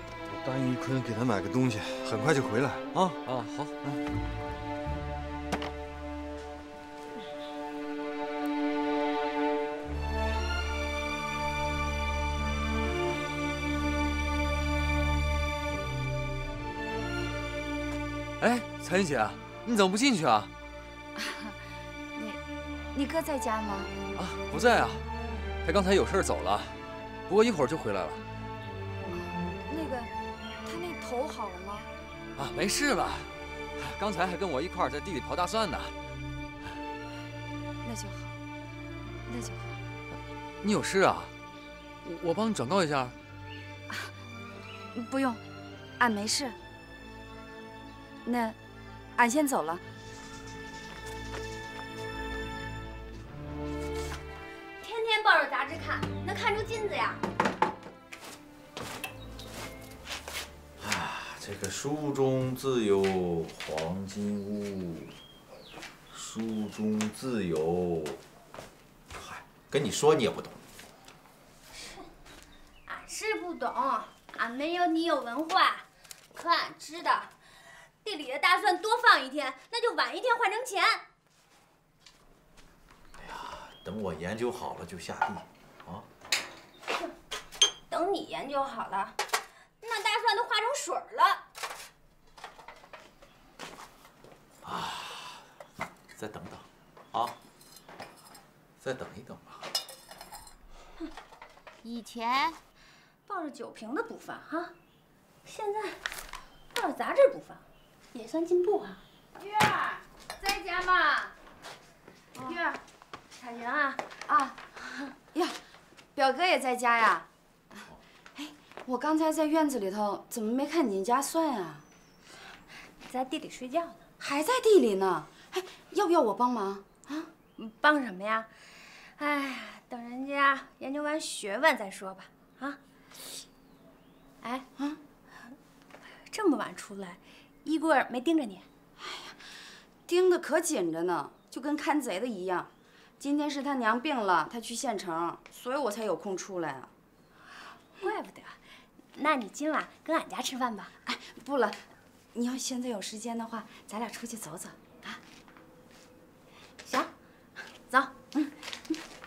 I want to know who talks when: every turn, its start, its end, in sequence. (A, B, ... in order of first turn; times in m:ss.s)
0:00.3-0:02.9 A
0:02.9-0:03.7 B
0:18.4-0:20.5 B
0:21.1-0:21.6 C
0:22.1-0:22.4 C
0:22.9-0:24.0 C
0:24.1-0:25.0 B
0:25.6-0:28.2 B
0:29.0-0:30.1 C
0:30.6-0:31.9 C
0:32.4-0:35.9 B
0:37.8-0:38.4 C
0:39.2-0:39.8 C
0:40.6-0:41.3 B
0:42.0-0:43.2 B
0:44.9-0:45.4 C
0:46.0-0:46.6 C
0:48.2-0:48.6 C
0:49.1-0:49.8 C
0:54.8-0:57.2 D
1:00.8-1:05.1 E
1:06.1-1:08.2 E
1:09.1-1:10.6 E
1:11.7-1:12.1 D
1:12.8-1:17.3 D
1:18.0-1:21.0 D
1:23.2-1:26.1 E
1:27.9-1:29.2 D
1:29.8-1:31.4 D
1:34.6-1:35.4 E
1:36.1-1:37.4 E
1:38.8-1:39.6 E
1:41.8-1:42.5 C
1:43.3-1:44.7 D
1:45.4-1:46.0 D
1:46.7-1:51.3 D
1:52.4-1:52.7 C
1:52.4-1:52.8 D
1:53.4-1:54.0 D
1:54.3-1:54.6 C
1:56.1-2:01.8 C
2:03.0-2:04.0 D
2:04.2-2:07.3 C
2:07.6-2:08.5 D
2:09.0-2:12.8 D
2:14.4-2:14.7 D
2:16.2-2:18.6 D
2:19.0-2:19.4 C
2:20.0-2:26.9 C
2:28.0-2:30.9 D
2:31.0-2:31.8 C
2:32.3-2:35.2 C
2:36.8-2:37.1 D
2:37.7-2:38.3 D